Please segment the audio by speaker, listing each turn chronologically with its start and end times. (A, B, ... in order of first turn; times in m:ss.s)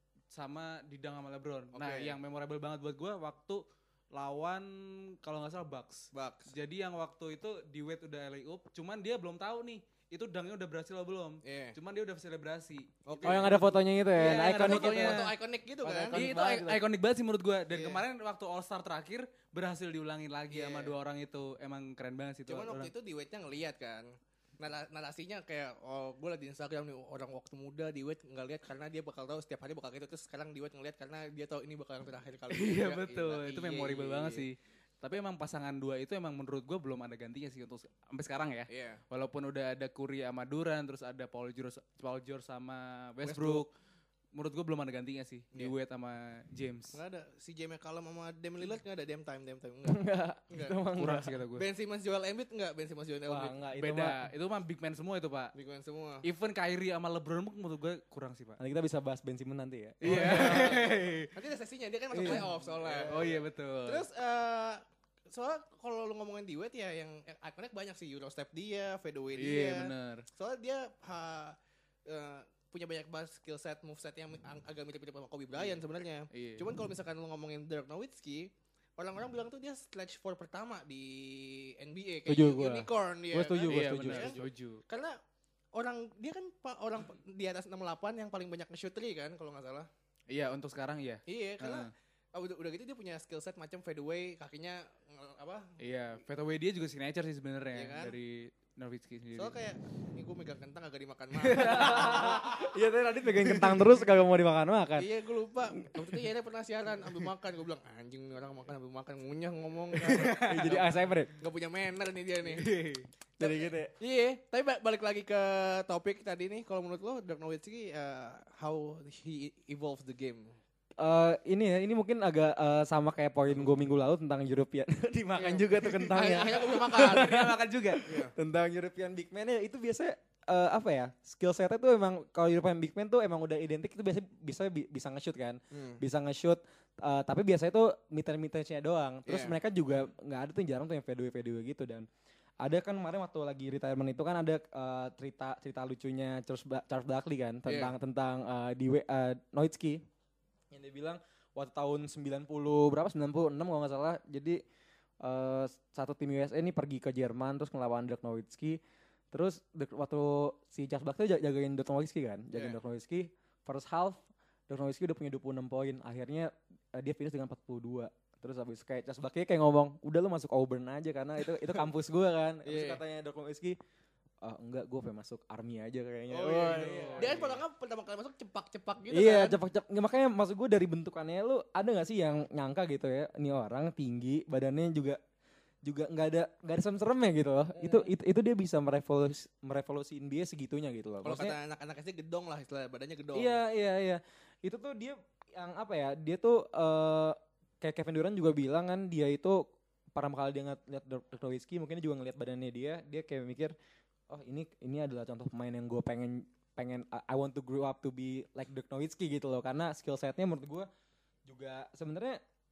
0:00.3-0:13.6 A
0:01.7-0:02.1 B
0:06.1-0:06.5 B
0:11.4-0:11.8 B
0:13.1-0:13.6 B
0:13.2-0:16.9 C
0:14.1-0:16.2 B
0:14.3-0:15.3 A
0:16.1-0:22.9 A
0:17.7-0:18.0 B
0:20.5-0:21.0 B
0:22.5-0:34.4 B
0:32.5-0:43.7 A
0:38.7-0:39.0 B
0:43.2-0:43.6 B
0:44.3-0:47.0 A
0:46.9-0:50.8 B
0:49.9-0:51.4 C
0:51.0-0:51.6 A
0:51.6-0:53.6 B
0:53.2-0:54.3 C
0:53.8-0:55.5 A
0:55.5-0:56.2 B
0:56.2-0:58.6 A
0:58.6-1:01.0 C
1:00.0-1:01.3 A
1:00.0-1:11.6 B
1:02.1-1:02.5 C
1:02.2-1:04.0 A
1:09.4-1:10.2 A
1:12.1-1:25.2 B
1:16.3-1:16.6 A
1:22.3-1:24.5 C
1:23.7-1:24.8 A
1:25.7-1:29.9 B
1:30.3-1:31.9 A
1:31.3-1:35.8 B
1:35.8-1:39.6 A
1:37.7-1:38.1 B
1:39.4-1:42.6 B
1:41.4-1:42.7 A
1:41.6-1:45.1 C
1:45.0-1:52.7 B
1:45.9-1:46.2 C
1:50.1-1:50.8 A
1:50.2-1:51.3 C
1:52.6-1:53.1 A
1:53.4-1:53.9 C
1:53.4-2:00.6 B
2:01.0-2:22.1 C
2:05.4-2:08.3 B
2:06.8-2:08.1 A
2:15.7-2:16.0 B
2:19.2-2:19.6 B
2:22.6-2:30.0 C
2:27.7-2:27.9 B
2:30.7-2:34.6 C
2:35.2-2:38.8 C
2:39.3-2:53.8 C
2:42.5-2:42.8 B
2:52.6-2:53.0 B
2:54.4-2:57.5 C
2:56.3-2:59.6 B
2:56.7-2:57.6 A
2:59.1-3:05.2 C
3:05.8-3:11.6 C
3:07.8-3:08.1 B
3:11.2-3:13.6 B
3:13.4-3:23.8 C
3:24.3-3:30.9 C
3:31.4-3:32.4 C